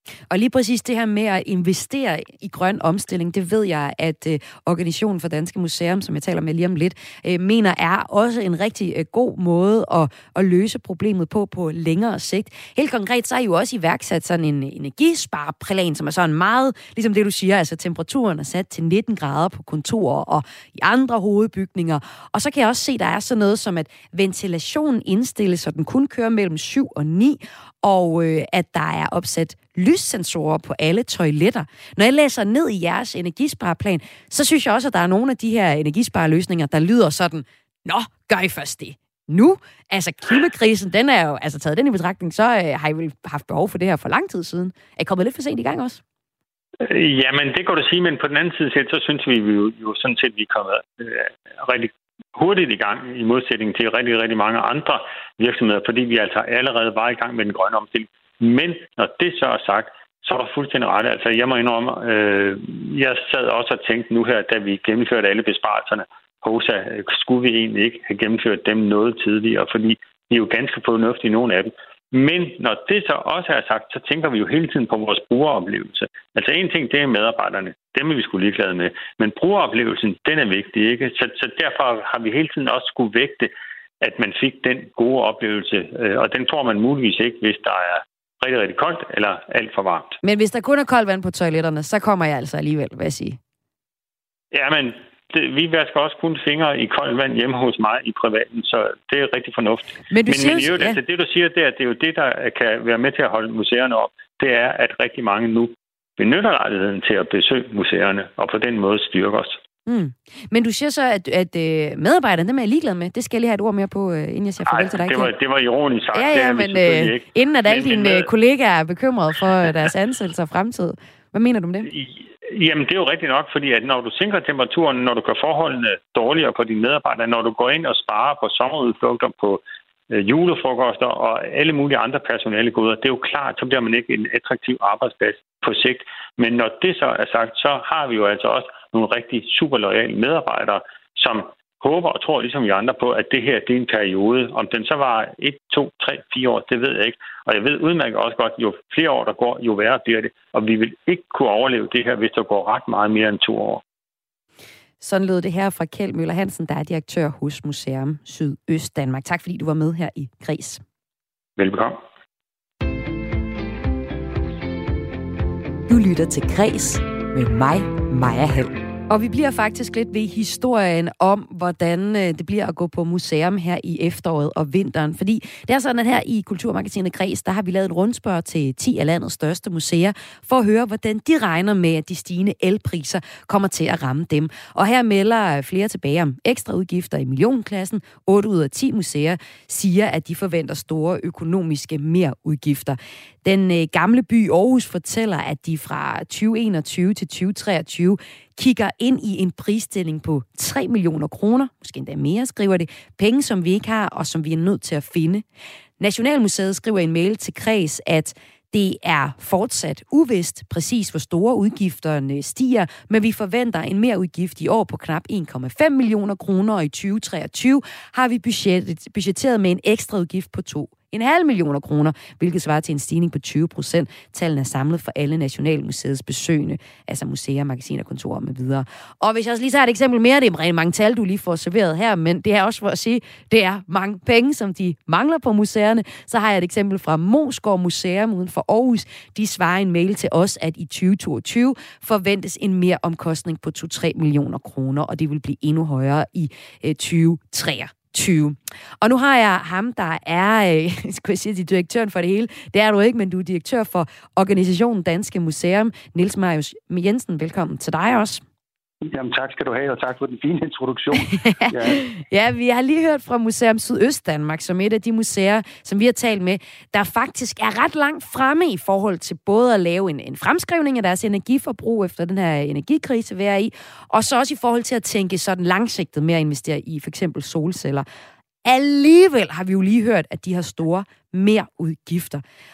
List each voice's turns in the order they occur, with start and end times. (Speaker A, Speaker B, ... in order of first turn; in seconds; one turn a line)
Speaker A: 0.3-46.0
Speaker B: 46.8-90.2
Speaker A: 90.2-93.4
Speaker B: 94.5-109.6
Speaker A: 100.1-101.0
Speaker A: 109.9-115.3
Speaker B: 114.7-118.3
Speaker A: 116.1-121.9
Speaker B: 121.9-153.8
Speaker A: 155.0-160.8
Speaker B: 161.6-162.0
Speaker A: 165.9-205.4
Speaker A: 206.0-258.4
Speaker C: 259.1-262.0
Speaker A: 261.4-278.0
Speaker A: 278.6-282.4